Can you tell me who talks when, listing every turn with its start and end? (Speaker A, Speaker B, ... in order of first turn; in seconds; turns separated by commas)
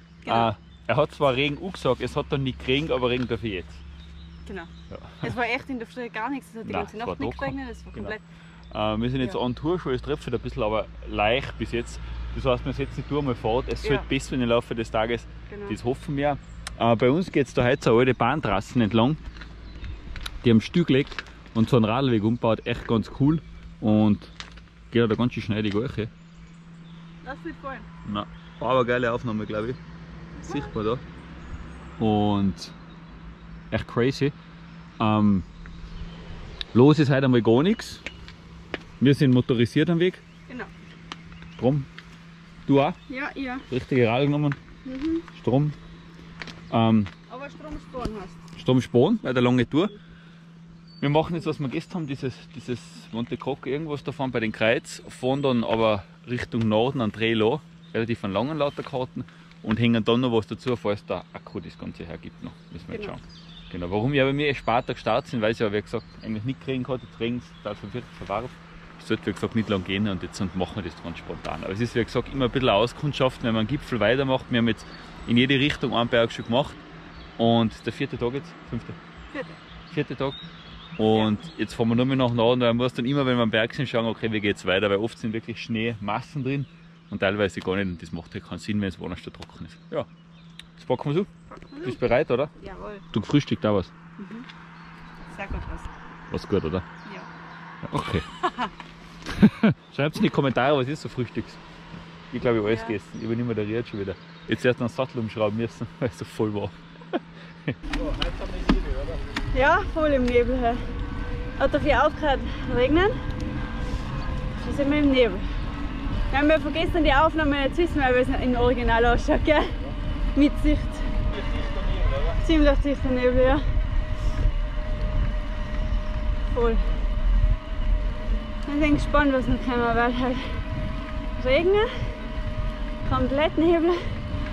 Speaker A: 0.2-0.5, Speaker B: 0.3-3.8, Speaker A: 4.5-8.2, Speaker B: 4.9-5.3, Speaker B: 6.7-8.2, Speaker B: 8.7-19.2, Speaker A: 13.8-14.1, Speaker A: 15.5-15.8, Speaker B: 20.4-24.3, Speaker B: 24.9-26.1, Speaker A: 27.2-27.9, Speaker B: 28.0-29.8, Speaker A: 30.4-30.7, Speaker B: 30.4-31.0, Speaker B: 32.0-32.8, Speaker B: 33.7-34.3, Speaker B: 35.0-35.5, Speaker B: 36.7-38.0, Speaker B: 39.0-40.2, Speaker B: 41.6-41.9, Speaker B: 42.7-43.0, Speaker A: 43.1-43.6, Speaker B: 43.7-44.6, Speaker A: 44.8-45.3, Speaker B: 45.3-45.8, Speaker B: 46.7-47.1, Speaker A: 47.3-48.4, Speaker B: 48.6-49.9, Speaker B: 51.0-76.8, Speaker B: 77.4-79.0, Speaker A: 79.3-79.6, Speaker B: 79.9-80.4, Speaker B: 81.0-90.1, Speaker A: 81.1-81.5, Speaker B: 90.8-91.3, Speaker A: 91.7-92.0, Speaker B: 91.8-92.5, Speaker A: 92.5-93.0, Speaker B: 93.1-93.9, Speaker A: 94.2-94.5, Speaker A: 95.3-95.9, Speaker B: 96.3-96.9, Speaker B: 97.8-98.3, Speaker A: 98.4-98.7, Speaker B: 99.2-101.6, Speaker B: 102.3-109.2, Speaker A: 102.7-103.0, Speaker A: 109.5-110.8, Speaker A: 111.6-113.2, Speaker A: 114.5-115.5, Speaker A: 116.3-119.8, Speaker A: 120.3-121.1, Speaker B: 121.3-122.4, Speaker A: 122.4-123.6, Speaker A: 126.5-126.9, Speaker A: 128.7-130.6, Speaker A: 131.4-132.1, Speaker A: 133.0-134.2